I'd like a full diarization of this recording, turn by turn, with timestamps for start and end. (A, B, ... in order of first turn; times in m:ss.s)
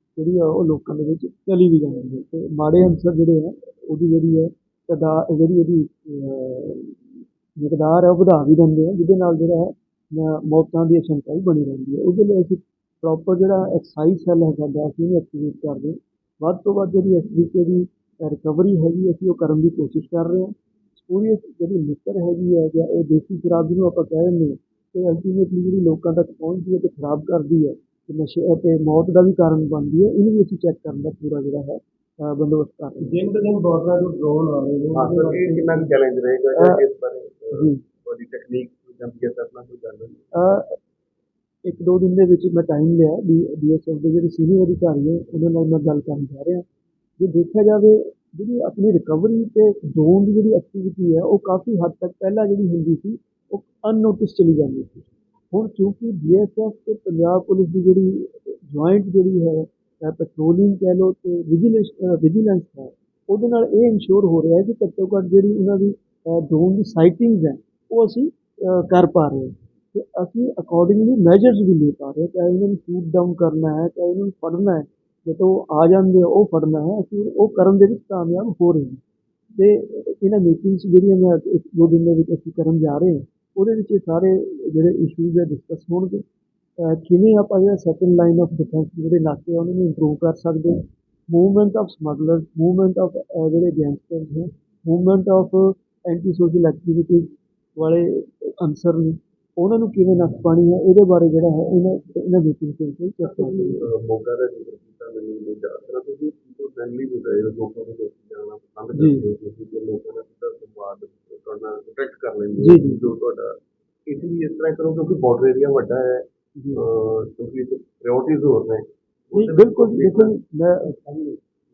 0:00.2-0:33.2 A
0:33.0-0:35.5 B
0:34.9-0:40.3 C
0:35.0-0:35.9 A
0:36.5-0:36.8 A
0:37.5-0:37.8 A
0:40.3-0:40.8 A
0:41.6-0:46.6 A
0:47.2-1:19.0 A
1:19.6-1:26.2 A
1:26.8-1:43.8 A
1:43.3-2:00.4 C
1:48.9-1:49.3 A
1:52.6-1:53.0 A
1:56.6-1:56.9 A
1:59.3-2:01.0 A
2:00.9-2:01.4 C